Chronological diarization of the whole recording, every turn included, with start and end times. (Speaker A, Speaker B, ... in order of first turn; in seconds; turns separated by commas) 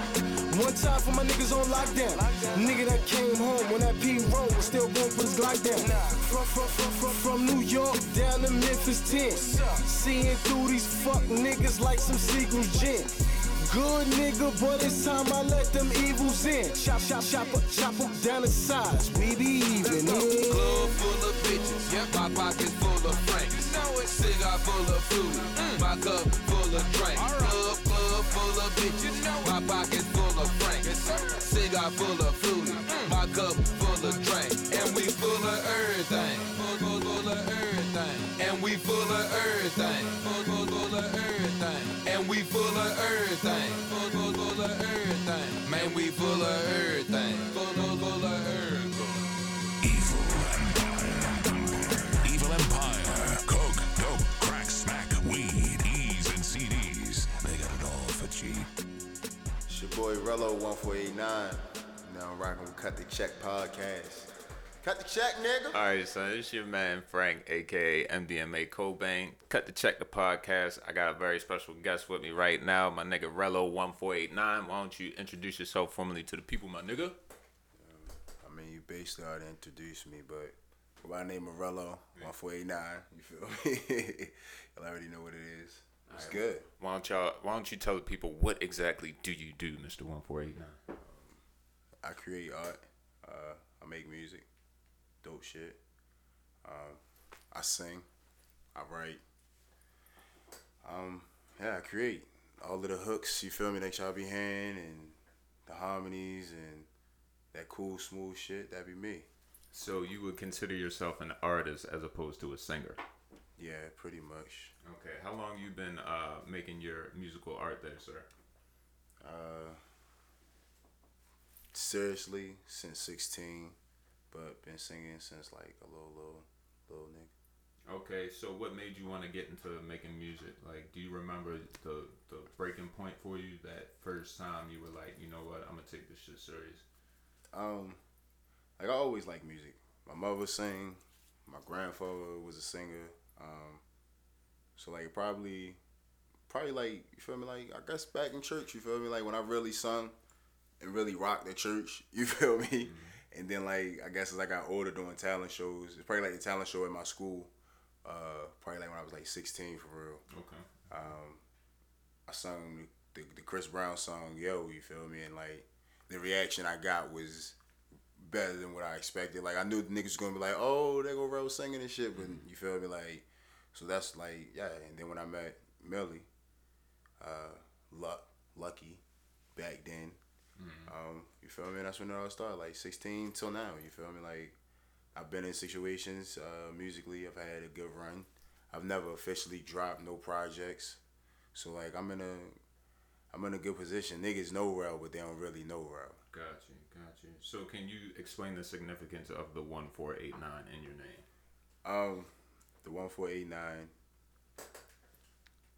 Speaker A: 0.5-21.0, Speaker B: 19.9-49.0, Speaker C: 49.8-58.7, Speaker D: 59.7-64.3, Speaker D: 64.8-65.8, Speaker E: 65.7-77.2, Speaker D: 77.8-86.7, Speaker E: 86.1-90.8, Speaker D: 91.0-91.4, Speaker D: 92.0-94.5, Speaker D: 95.2-95.8, Speaker D: 96.6-97.0, Speaker D: 97.5-98.0, Speaker D: 98.8-99.2, Speaker D: 100.8-105.2, Speaker D: 105.7-106.9, Speaker D: 107.5-109.3, Speaker E: 109.7-113.0, Speaker D: 113.6-114.7, Speaker E: 114.8-118.3, Speaker D: 119.2-119.8, Speaker D: 121.7-123.8, Speaker D: 124.3-127.3, Speaker E: 127.9-136.8, Speaker D: 137.5-138.0, Speaker D: 138.8-143.8, Speaker D: 144.8-145.8, Speaker D: 146.5-150.1, Speaker D: 150.8-157.5, Speaker E: 152.8-153.2, Speaker D: 158.1-160.2, Speaker E: 160.3-160.7, Speaker D: 160.9-161.4, Speaker D: 162.3-167.6, Speaker D: 168.2-176.3, Speaker E: 172.1-172.4, Speaker D: 177.2-179.0, Speaker D: 179.6-180.2, Speaker E: 180.6-180.9, Speaker D: 180.9-184.6, Speaker D: 185.2-191.0, Speaker D: 191.6-192.6, Speaker D: 193.3-196.2, Speaker E: 196.3-201.2, Speaker D: 201.8-202.3, Speaker D: 202.8-203.9